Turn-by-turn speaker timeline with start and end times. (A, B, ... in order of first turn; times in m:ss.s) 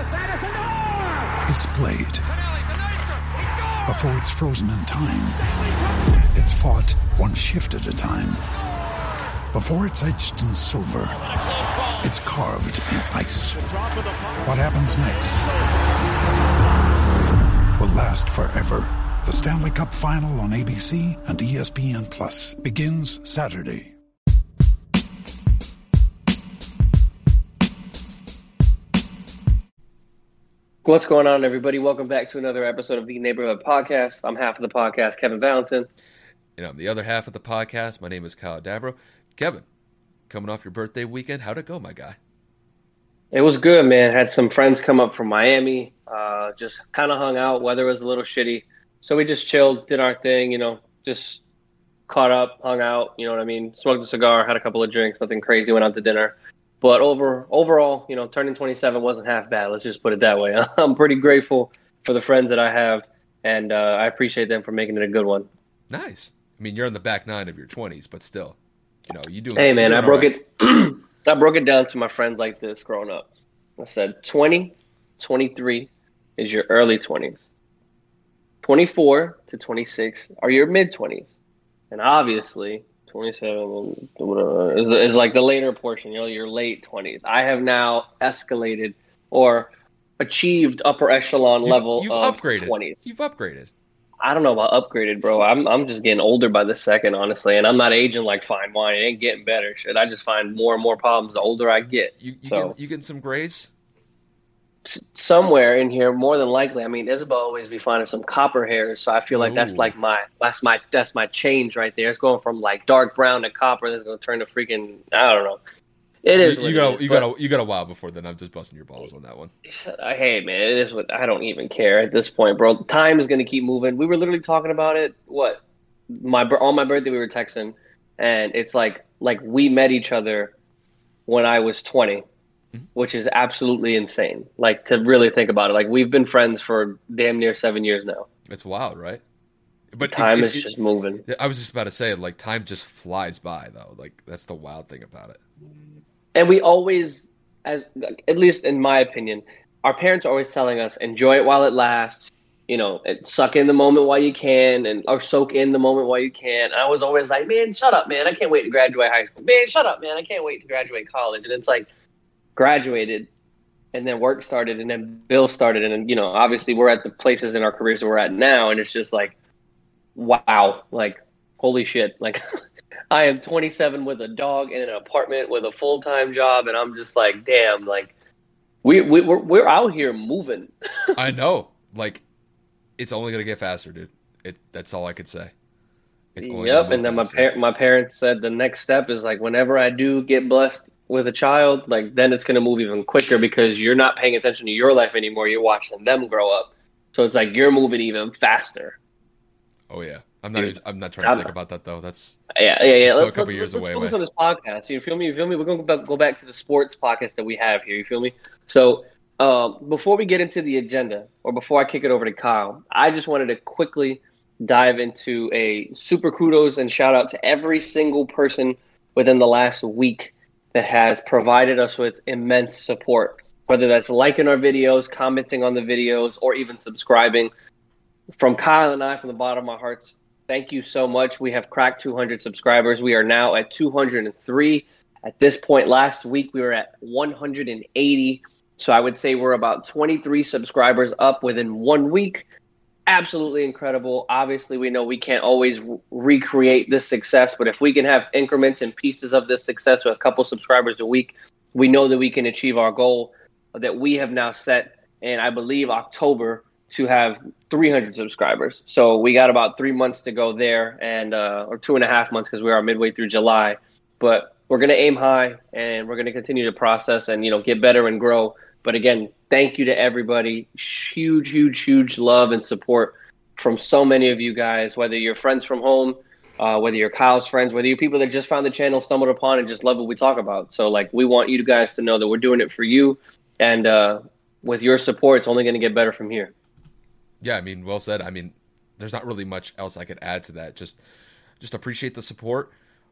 0:01.5-0:02.3 A
0:03.8-0:05.4 A
0:06.3-0:08.5 A
0:09.5-0:11.2 A
0:12.0-0:13.7 A
0:14.4-0:15.5 A
0:17.8-0:23.9 A
0:30.8-0:35.9 B
0:36.6-0:39.7 C
0:40.3-0:42.2 C
0:43.3-0:51.4 B
0:52.1-1:05.5 B
1:05.9-1:08.6 C
1:09.1-1:10.3 C
1:09.6-1:13.3 B
1:13.8-1:17.4 B
1:18.6-1:21.3 B
1:21.9-1:33.1 B
1:31.6-1:33.7 C
1:34.2-1:42.8 B
1:42.2-1:43.7 C
1:44.8-1:55.6 B
1:49.3-1:49.9 C
1:56.2-1:57.3 B
1:56.4-1:59.5 C
1:59.6-2:10.5 B
2:11.3-2:12.2 B
2:13.0-2:18.3 B
2:18.5-2:19.2 C
2:19.9-2:20.7 C
2:20.0-2:21.2 B
2:21.3-2:25.4 C
2:26.4-2:41.9 B
2:42.6-2:43.3 B
2:43.9-2:49.3 B
2:50.2-2:52.4 B
2:53.1-2:58.1 B
2:58.8-3:00.7 B
3:01.2-3:02.2 C
3:03.0-3:05.5 C
3:06.4-3:07.5 C
3:06.4-3:19.0 B
3:19.9-3:22.4 C
3:20.6-3:21.5 B
3:22.6-3:47.5 B
3:23.0-3:24.2 C
3:48.4-4:02.4 B
4:03.1-4:46.5 B
4:47.4-4:51.0 C
4:51.6-4:52.7 C